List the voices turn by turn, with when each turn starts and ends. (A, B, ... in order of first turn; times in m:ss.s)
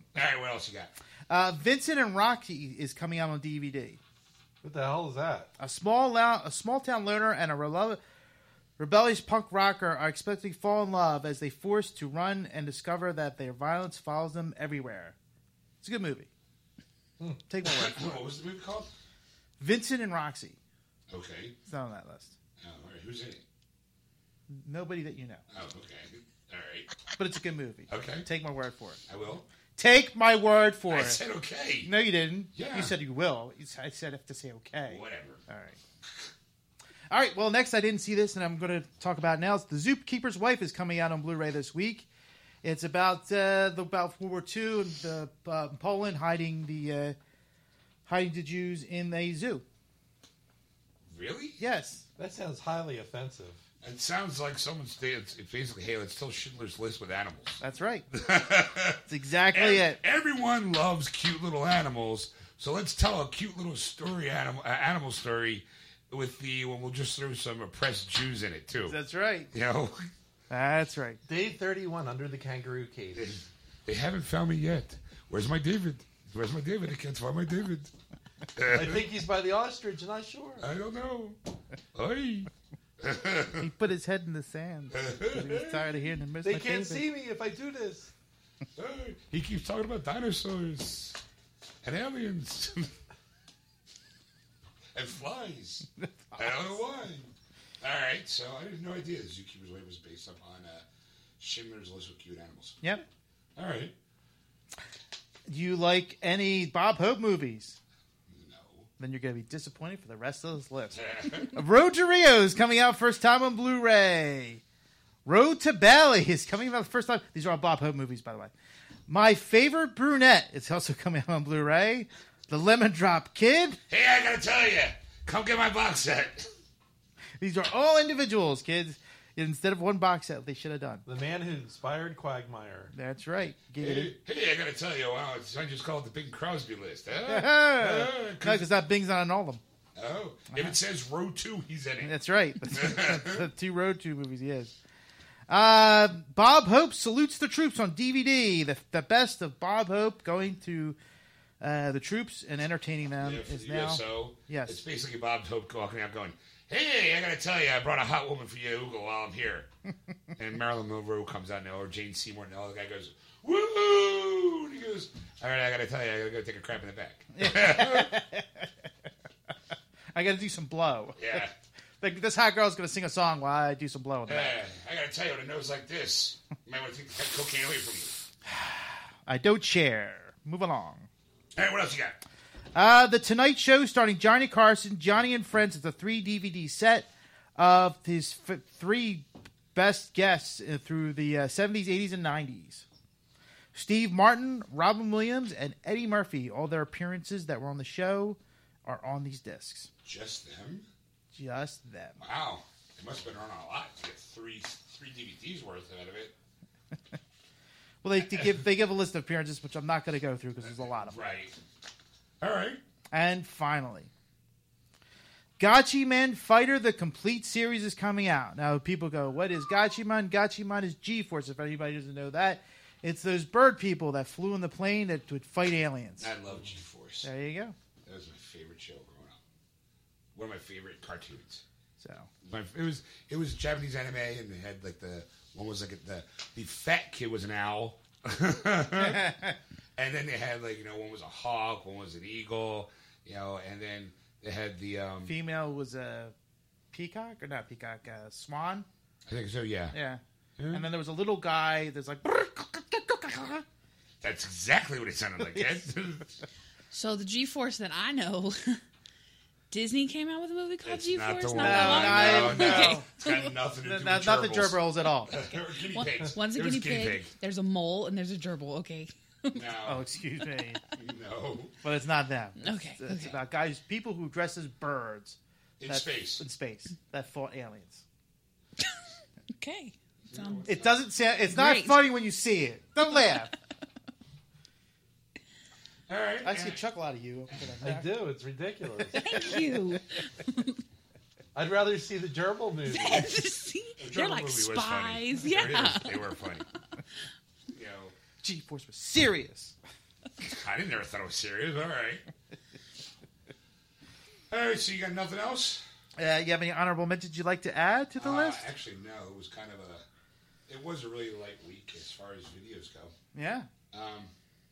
0:00.1-0:00.9 A
0:01.3-0:04.0 B
0:04.6-0:05.5 C
0:05.6-0:08.0 B
0:08.8-0:15.2 B
0:15.8-0:16.3 B
0:17.5-0:18.2 B
0:17.6-0:18.9 A
0:19.6-0:20.6 B
0:21.1-0:21.6 A
0:21.7-0:22.3 B
0:22.6-0:23.4 A
0:24.5-0:25.4 B
0:25.5-0:27.0 A
0:27.2-0:29.0 B
0:27.9-0:28.3 A
0:29.1-0:29.4 A
0:29.8-0:31.2 B
0:30.9-0:31.9 A
0:31.8-0:35.8 B
0:32.6-0:32.9 A
0:34.9-0:35.4 A
0:37.1-0:42.1 B
0:42.6-0:47.2 B
0:48.1-0:49.6 B
0:51.1-0:51.6 A
0:51.6-0:52.0 B
0:52.2-0:53.6 C
0:53.8-0:57.6 A
0:57.6-0:58.1 B
0:58.1-1:09.0 A
0:59.1-1:00.0 B
1:08.9-1:09.5 B
1:09.5-1:10.1 A
1:10.5-1:11.2 B
1:11.3-1:13.4 C
1:13.2-1:17.9 A
1:18.6-1:19.1 A
1:18.7-1:20.6 C
1:20.6-1:21.4 A
1:21.9-1:23.7 A
1:23.6-1:27.1 B
1:24.9-1:25.9 A
1:26.4-1:28.1 C
1:28.8-1:31.2 A
1:31.8-1:32.9 A
1:34.9-1:37.3 A
1:36.3-1:36.7 B
1:37.8-1:40.8 A
1:41.4-1:42.8 A
1:43.6-1:43.9 A
1:45.5-1:47.8 B
1:48.3-1:48.9 A
1:49.0-1:54.6 B
1:51.0-1:51.5 A
1:55.3-1:58.5 B
1:59.1-2:03.8 B
2:03.9-2:06.5 A
2:07.4-2:11.0 B
2:11.1-2:12.9 C
2:12.9-2:14.2 B
2:13.8-2:18.7 A
2:17.3-2:19.6 B
2:20.0-2:23.5 A
2:22.0-2:24.8 B
2:25.5-2:31.0 B
2:31.6-2:34.8 B
2:33.2-2:39.7 A
2:40.4-2:48.2 A
2:47.4-2:48.7 B
2:50.1-2:51.4 B
2:51.2-2:51.5 A
2:52.0-2:54.6 B
2:54.3-2:58.2 A
2:58.5-3:01.1 B
3:01.6-3:02.2 A
3:02.8-3:12.8 B
3:13.7-3:19.9 B
3:20.0-3:20.9 A
3:21.3-3:22.2 B
3:22.2-3:26.3 A
3:28.0-3:31.2 B
3:28.2-3:28.6 A
3:30.6-3:31.6 A
3:32.4-3:32.8 A
3:33.1-3:34.1 B
3:35.6-3:46.3 B
3:46.2-3:47.3 A
3:47.2-3:47.8 B
3:48.0-3:49.4 A
3:50.4-3:51.6 A
3:52.0-3:52.3 B
3:52.4-3:59.3 A
3:59.0-3:59.6 B
4:00.0-4:05.3 A
4:05.2-4:06.3 B
4:06.9-4:08.9 B
4:09.3-4:10.0 A
4:09.9-4:10.2 B
4:10.6-4:10.9 A
4:10.7-4:13.6 B
4:14.2-4:16.4 A
4:16.9-4:18.8 D
4:19.7-4:23.5 D
4:20.8-4:27.3 A
4:21.6-4:23.0 B
4:23.8-4:25.3 B
4:25.9-4:29.6 D
4:29.5-4:30.0 A
4:29.9-4:30.8 B
4:31.0-4:31.7 A
4:31.8-4:38.0 B
4:32.6-4:33.4 D
4:35.8-4:36.4 A
4:39.6-4:40.7 D
4:40.2-4:41.0 A
4:40.7-4:43.5 B
4:41.5-4:42.1 D
4:46.1-4:46.8 A
4:46.4-4:48.2 B
4:47.8-4:49.2 C
4:49.1-4:50.8 D
4:51.6-4:53.3 C
4:52.9-4:56.3 D
4:54.0-4:56.6 A
4:57.7-4:58.2 A
4:58.4-4:59.8 B
5:00.4-5:02.2 A
5:04.5-5:05.8 A
5:06.2-5:08.6 B
5:08.2-5:10.0 A
5:10.7-5:13.1 A
5:13.3-5:13.7 B
5:13.9-5:14.3 A